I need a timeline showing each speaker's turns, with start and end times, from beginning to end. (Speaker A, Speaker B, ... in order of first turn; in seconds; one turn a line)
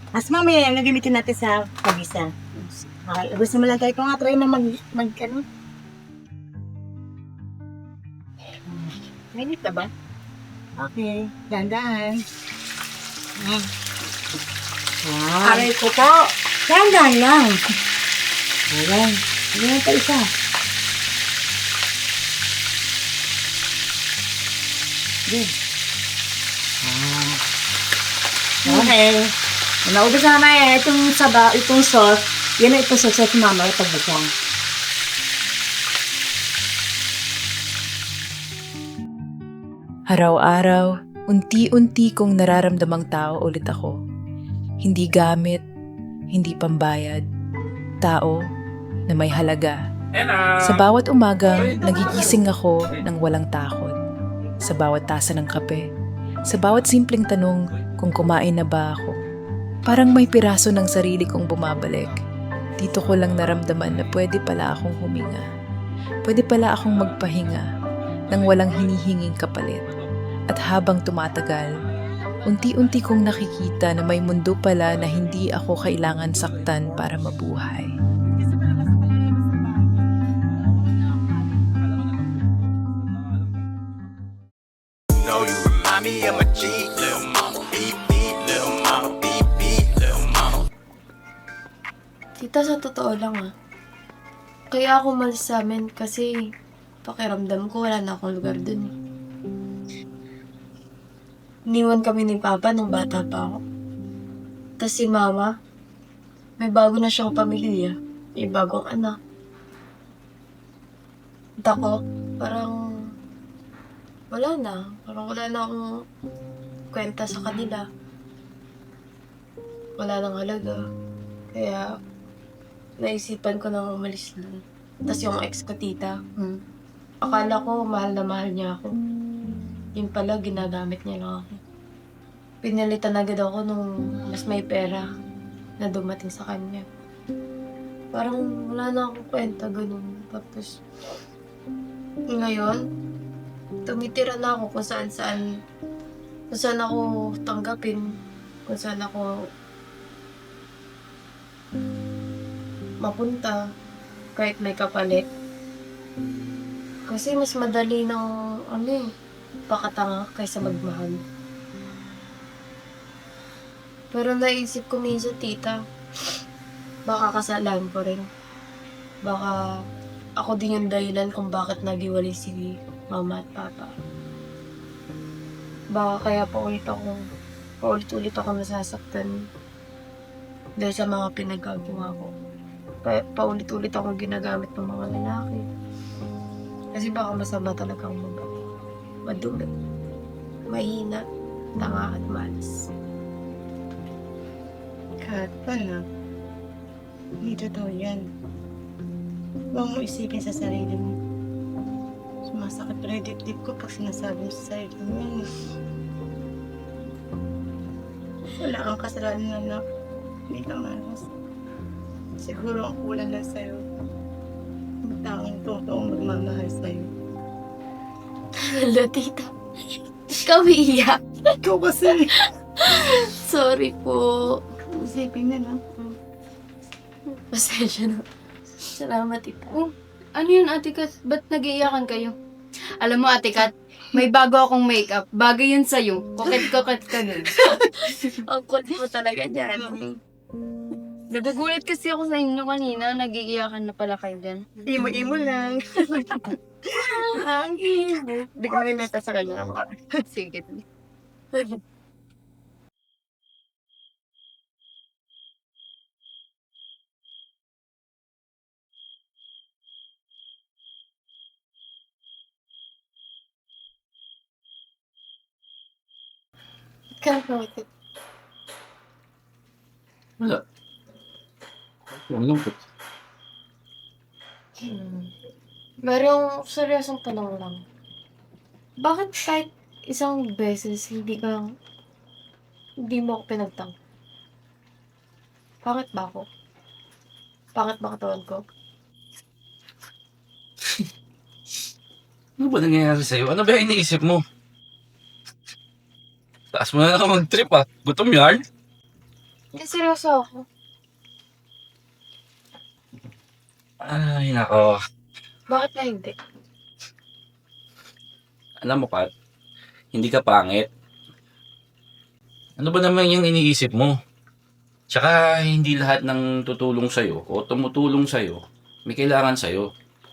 Speaker A: 0.1-2.3
Speaker B: 2.5-2.8
Speaker A: 3.1-5.4
Speaker B: 9.3-9.9
Speaker A: 10.8-12.2
Speaker A: 13.4-13.7
Speaker A: 15.0-15.7
Speaker A: 16.7-17.6
Speaker A: 18.7-20.3
Speaker A: 26.8-27.4
Speaker A: 28.6-29.3
Speaker A: 29.8-34.3
Speaker C: 40.1-43.9
Speaker C: 44.8-45.6
Speaker C: 46.3-47.2
Speaker C: 48.0-48.4
Speaker C: 49.1-49.8
Speaker D: 50.1-50.8
Speaker C: 50.6-53.9
Speaker D: 51.5-52.4
Speaker C: 54.6-55.8
Speaker C: 56.5-59.2
Speaker C: 59.9-62.2
Speaker C: 62.8-65.5
Speaker C: 66.2-67.7
Speaker C: 68.3-69.9
Speaker C: 70.5-71.7
Speaker C: 72.4-77.9
Speaker A: 79.3-79.6
Speaker B: 92.4-93.5
Speaker B: 94.7-96.3
Speaker B: 97.0-98.9
Speaker B: 101.7-103.6
Speaker B: 104.8-105.5
Speaker B: 106.6-109.1
Speaker B: 111.6-112.8
Speaker B: 114.3-115.8
Speaker B: 116.9-117.8
Speaker B: 120.0-120.8
Speaker B: 121.5-121.9
Speaker B: 123.0-126.1
Speaker B: 127.2-128.9
Speaker B: 129.9-131.5
Speaker B: 132.6-135.1
Speaker B: 135.8-136.8
Speaker B: 138.1-140.7
Speaker B: 142.3-142.8
Speaker B: 143.8-145.4
Speaker B: 146.5-148.0
Speaker B: 148.7-149.2
Speaker B: 153.0-153.6
Speaker B: 154.3-155.2
Speaker B: 157.1-159.0
Speaker B: 159.7-161.2
Speaker B: 164.1-165.8
Speaker B: 167.1-168.2
Speaker B: 169.2-169.6
Speaker B: 170.4-173.9
Speaker B: 175.9-177.1
Speaker B: 177.8-179.3
Speaker B: 180.8-182.3
Speaker B: 183.0-185.6
Speaker B: 186.9-188.4
Speaker B: 189.2-189.7
Speaker B: 190.7-191.2
Speaker B: 191.8-192.9
Speaker A: 195.2-196.0
Speaker A: 197.4-198.2
Speaker A: 199.7-201.2
Speaker A: 202.4-205.4
Speaker A: 208.6-209.8
Speaker A: 210.5-211.3
Speaker A: 212.4-213.8
Speaker A: 215.1-217.1
Speaker B: 218.6-219.5
Speaker B: 220.3-221.2
Speaker A: 221.6-222.3
Speaker B: 222.4-224.6
Speaker A: 225.0-225.8
Speaker B: 227.5-228.2
Speaker B: 228.9-229.7
Speaker E: 229.8-232.3
Speaker E: 233.0-237.5
Speaker B: 237.6-240.1
Speaker E: 241.3-244.6
Speaker A: 244.8-247.7
Speaker B: 247.8-248.5
Speaker A: 248.6-250.0
Speaker E: 250.2-250.8
Speaker B: 267.2-267.9
Speaker D: 272.3-272.8
Speaker B: 274.8-275.3
Speaker B: 276.0-277.8
Speaker B: 279.0-281.6
Speaker B: 283.0-283.9
Speaker B: 285.8-286.4
Speaker B: 287.8-288.6
Speaker D: 292.6-294.4
Speaker D: 296.7-298.6
Speaker B: 299.7-300.6
Speaker D: 304.0-305.0
Speaker B: 305.7-306.3
Speaker D: 308.8-309.3
Speaker D: 310.1-310.9
Speaker D: 312.8-314.1
Speaker D: 315.1-319.9